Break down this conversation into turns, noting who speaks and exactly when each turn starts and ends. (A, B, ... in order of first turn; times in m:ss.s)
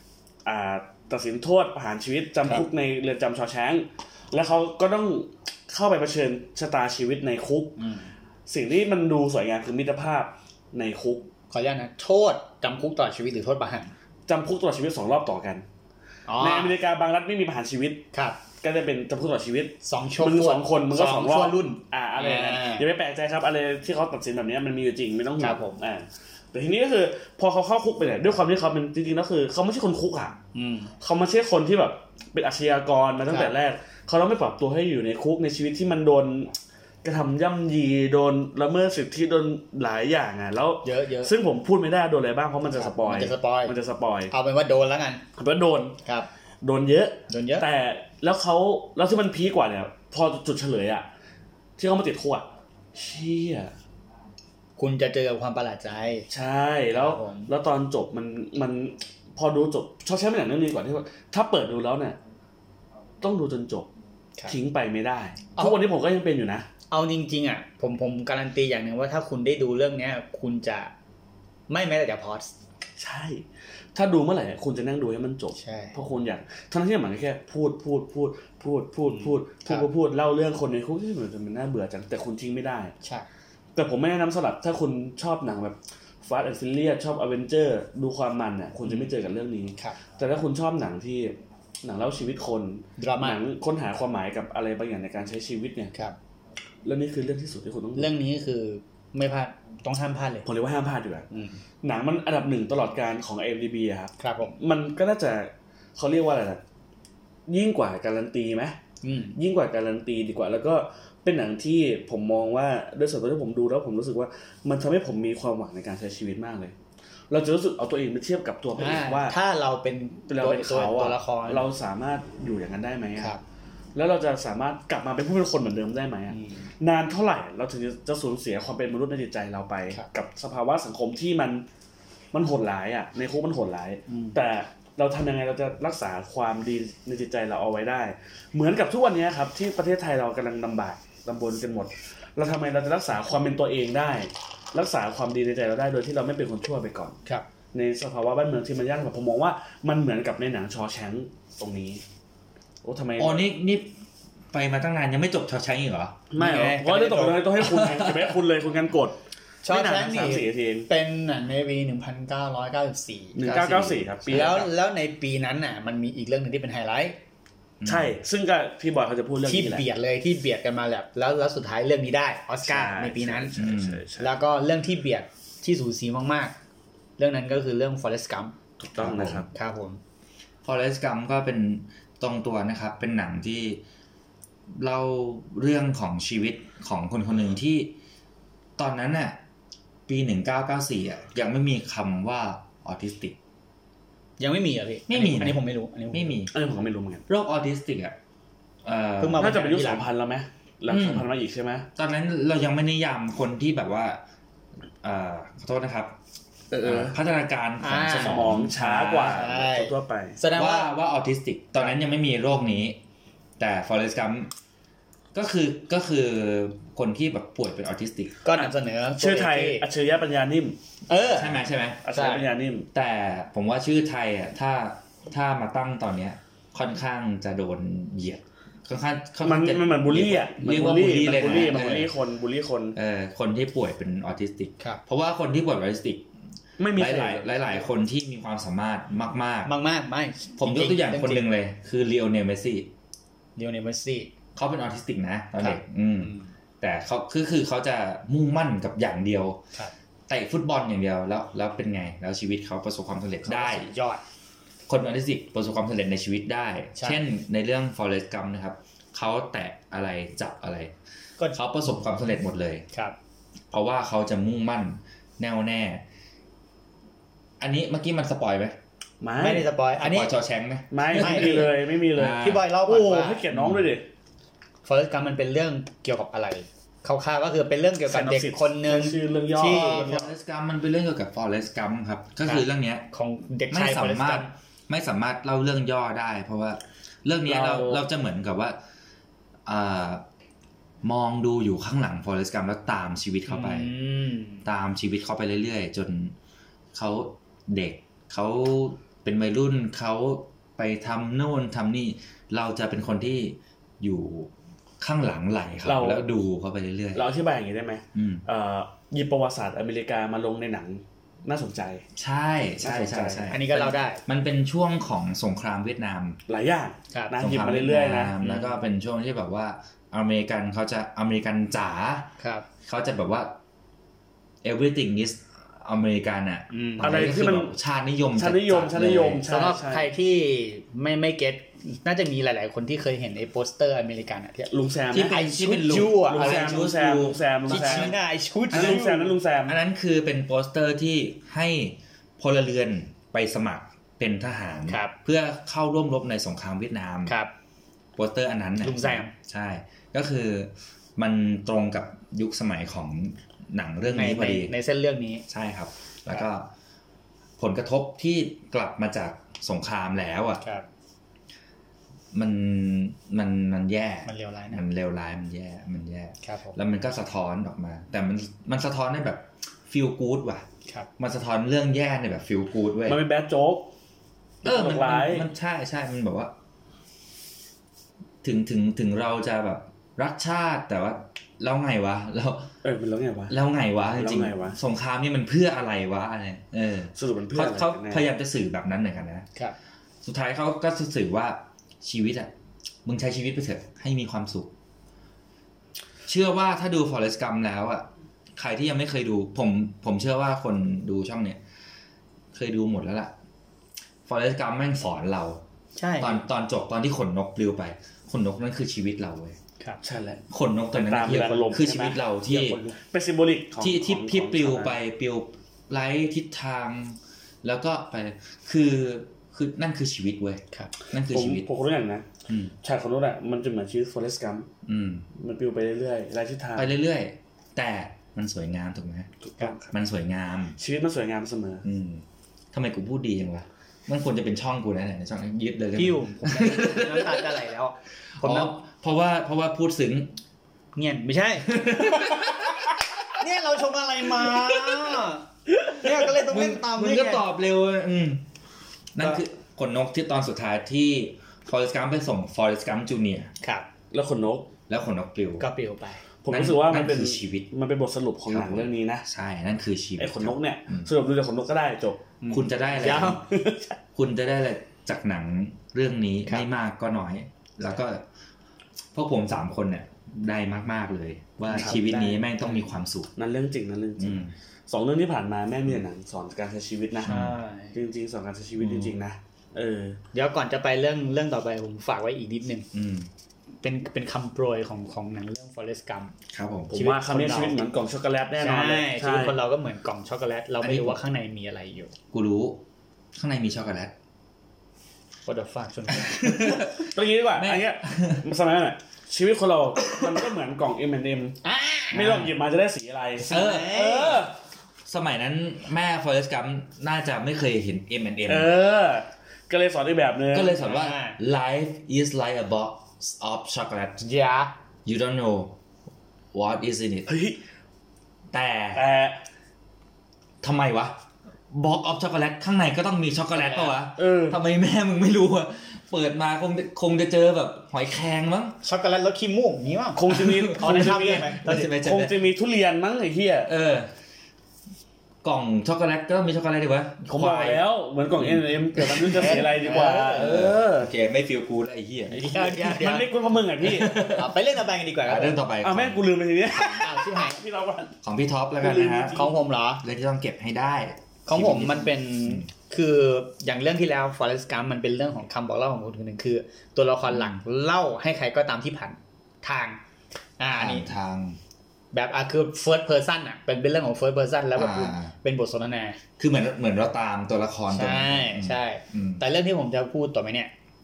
0:00.4-0:07.8 A
0:07.8-0:08.1 B
0:08.5-0:11.3 A
0:11.5-0:13.9 B
0:14.3-0:15.6 A
0:16.3-0:16.8 B
0:16.4-0:18.0 A
0:18.1-0:18.4 B
0:18.6-0:30.4 A
0:19.8-0:22.8 B
0:25.4-0:25.8 B
0:30.5-0:30.9 B
0:31.0-0:44.3 A
0:40.8-0:41.3 B
0:42.7-0:43.7 B
0:44.3-0:45.2 B
0:45.4-0:46.0 A
0:46.0-0:46.3 B
0:46.6-0:51.1 A
0:47.3-0:47.6 B
0:51.8-0:53.7 A
0:54.8-0:56.2 B
0:56.3-1:02.2 A
0:56.9-0:57.5 B
1:03.2-1:03.9 A
1:04.5-1:06.6 A
1:06.9-1:10.9 B
1:11.7-1:12.5 B
1:13.0-1:22.9 A
1:15.6-1:16.0 B
1:19.1-1:19.8 B
1:23.8-1:35.9 A
1:28.8-1:29.1 B
1:33.0-1:33.4 B
1:36.8-1:38.1 A
1:38.0-1:40.4 B
1:40.4-1:41.3 A
1:41.8-1:46.6 A
1:44.2-1:44.6 B
1:47.5-1:48.8 A
1:49.0-1:49.4 B
1:49.4-1:56.7 A
1:57.3-1:59.4 A
1:58.8-2:01.7 B
2:00.3-2:03.3 A
2:03.9-2:11.6 A
2:06.3-2:06.6 B
2:12.3-2:27.2 A
2:14.1-2:14.4 B
2:27.7-2:32.0 A
2:32.8-2:33.4 A
2:33.2-2:33.9 C
2:34.5-2:36.2 C
2:36.3-2:40.9 A
2:36.4-2:37.4 B
2:37.6-2:38.4 C
2:39.6-2:47.2 B
2:43.4-2:44.7 A
2:44.3-2:44.7 C
2:47.8-2:48.2 C
2:47.8-2:49.8 A
2:49.4-2:53.6 B
2:52.7-2:54.3 A
2:53.6-2:54.0 C
2:54.2-2:56.5 B
2:57.2-2:58.6 B
2:58.8-2:59.5 A
2:59.0-2:59.4 C
2:59.5-3:00.0 B
3:00.6-3:03.8 C
3:04.8-3:07.9 C
3:08.8-3:09.4 C
3:10.1-3:13.4 C
3:14.4-3:16.4 B
3:15.1-3:16.5 C
3:16.5-3:17.2 A
3:17.3-3:18.1 C
3:18.8-3:19.6 C
3:19.2-3:20.1 B
3:19.4-3:21.9 A
3:20.9-3:21.3 C
3:22.0-3:24.2 C
3:25.0-3:26.2 C
3:26.7-3:27.1 A
3:26.8-3:29.5 C
3:27.8-3:28.6 B
3:28.1-3:30.4 A
3:29.2-3:30.9 B
3:30.5-3:33.0 C
3:33.6-3:34.5 C
3:35.3-3:38.4 C
3:38.4-3:39.8 B
3:38.5-3:40.8 A
3:41.1-3:41.6 B
3:41.3-3:42.0 C
3:42.0-3:42.9 A
3:42.1-3:42.5 B
3:42.9-3:52.1 C
3:49.4-3:53.0 A
3:53.0-3:56.3 C
3:56.8-3:57.8 A
3:56.9-3:59.7 C
3:59.6-4:01.5 B
4:00.6-4:02.9 C
4:03.6-4:04.3 B
4:04.6-4:09.6 C
4:05.6-4:06.5 B
4:10.3-4:13.9 C
4:13.4-4:14.2 B
4:14.9-4:20.9 C
4:17.0-4:17.2 B
4:21.5-4:22.9 C
4:23.7-4:26.0 C
4:27.6-4:28.8 C
4:29.2-4:29.7 A
4:29.4-4:30.3 B
4:30.0-4:32.6 C
4:30.9-4:34.0 A
4:31.1-4:33.4 B
4:33.5-4:33.9 C
4:34.8-4:40.3 B
4:38.1-4:40.3 A
4:39.6-4:43.1 C
4:42.4-4:44.5 B
4:43.7-4:48.8 C
4:47.4-4:48.0 A
4:49.6-4:50.2 C
4:51.0-4:53.9 C
4:53.5-4:54.6 B
4:54.6-4:56.3 C
4:56.9-5:07.3 C
5:05.8-5:06.2 A
5:07.1-5:12.0 A
5:08.1-5:08.4 C
5:12.2-5:16.4 C
5:12.8-5:13.5 A
5:13.5-5:14.2 B
5:16.5-5:18.4 A
5:17.4-5:22.3 C
5:18.4-5:18.8 B
5:22.4-5:22.6 B
5:22.8-5:23.6 C
5:24.6-5:29.4 C
5:26.7-5:27.3 B
5:27.0-5:27.7 A
5:28.4-5:30.1 A
5:29.5-5:36.9 B
5:34.7-5:35.4 A
5:35.1-5:38.2 C
5:36.2-5:38.1 A
5:37.7-5:39.3 B
5:38.7-5:39.0 C
5:38.7-5:39.8 A
5:39.7-5:47.3 C
5:44.9-5:45.1 B
5:47.2-5:47.5 B
5:48.2-5:54.7 C
5:48.8-5:49.3 B
5:54.1-5:55.4 B
5:55.5-5:56.7 C
5:57.6-6:00.6 C
6:00.6-6:00.8 B
6:02.3-6:10.6 C
6:04.2-6:04.8 B
6:06.4-6:06.8 B
6:11.2-6:13.2 C
6:13.0-6:13.9 A
6:14.6-6:15.5 A
6:14.6-6:16.5 C
6:18.4-6:22.7 C
6:22.8-6:23.5 A
6:23.5-6:29.4 C
6:24.1-6:24.8 A
6:27.2-6:28.2 A
6:30.2-6:32.5 C
6:33.0-6:34.7 C
6:36.3-6:41.6 C
6:42.5-6:43.3 C
6:44.2-6:45.6 C
6:46.0-6:46.4 B
6:46.2-6:49.6 C
6:50.0-6:52.2 A
6:50.5-6:52.8 C
6:52.5-6:52.9 B
6:52.7-6:55.0 A
6:53.8-7:01.6 C
7:01.2-7:02.2 A
7:02.5-7:02.7 C
7:02.8-7:04.7 A
7:04.8-7:05.3 C
7:05.4-7:06.9 A
7:06.8-7:09.3 C
7:09.4-7:09.9 A
7:09.9-7:10.8 C
7:10.8-7:11.8 A
7:11.8-7:17.6 C
7:16.0-7:18.7 B
7:18.4-7:20.4 C
7:21.0-7:27.4 B
7:21.7-7:22.9 C
7:26.2-7:28.4 C
7:29.1-7:33.5 C
7:34.1-7:34.7 A
7:34.9-7:35.6 C
7:35.6-7:36.2 B
7:36.4-7:39.2 A
7:36.5-7:37.7 C
7:38.5-7:41.1 C
7:40.2-7:42.2 A
7:42.4-7:43.4 B
7:42.5-7:43.4 C
7:43.5-7:43.9 A
7:44.1-7:48.2 C
7:49.1-7:53.3 C
7:51.7-7:52.8 B
7:53.4-8:00.2 A
7:54.2-7:54.5 C
7:57.2-7:57.6 C
7:57.2-7:58.0 B
7:58.8-7:59.1 C
8:00.3-8:02.9 B
8:02.9-8:03.3 C
8:03.8-8:06.3 B
8:06.5-8:06.9 C
8:06.9-8:09.6 A
8:06.9-8:07.8 B
8:08.6-8:12.1 B
8:10.8-8:11.2 C
8:12.3-8:12.8 C
8:13.3-8:14.1 C
8:15.4-8:16.9 B
8:16.2-8:18.4 C
8:16.7-8:21.6 A
8:21.6-8:22.5 B
8:22.1-8:24.5 A
8:23.4-8:24.5 B
8:23.5-8:24.1 C
8:25.0-8:28.7 C
8:28.5-8:30.8 A
8:30.5-8:34.2 C
8:30.8-8:31.4 B
8:34.2-8:34.7 B
8:35.0-8:35.8 C
8:36.5-8:37.3 C
8:37.3-8:37.6 A
8:38.5-8:39.0 C
8:38.9-8:39.4 A
8:40.6-8:41.2 C
8:41.7-8:48.8 C
8:43.5-8:43.9 B
8:44.2-8:44.6 A
8:48.8-8:51.9 B
8:50.1-8:53.7 A
8:50.3-8:52.4 C
8:53.7-8:54.1 C
8:55.4-8:57.8 C
8:57.3-9:01.1 A
8:58.4-8:59.7 C
8:59.3-9:00.6 B
9:00.3-9:03.0 C
9:02.3-9:03.3 B
9:02.8-9:04.2 A
9:03.8-9:04.5 C
9:04.2-9:05.6 B
9:05.2-9:06.2 C
9:05.8-9:08.1 A
9:06.8-9:07.6 B
9:08.2-9:09.4 C
9:08.8-9:09.5 A
9:09.3-9:10.0 B
9:10.0-9:12.7 C
9:11.4-9:20.0 B
9:17.3-9:17.6 C
9:20.6-9:21.1 B
9:20.8-9:21.6 C
9:22.1-9:26.2 B
9:24.7-9:25.3 C
9:26.4-9:29.4 C
9:27.9-9:30.7 B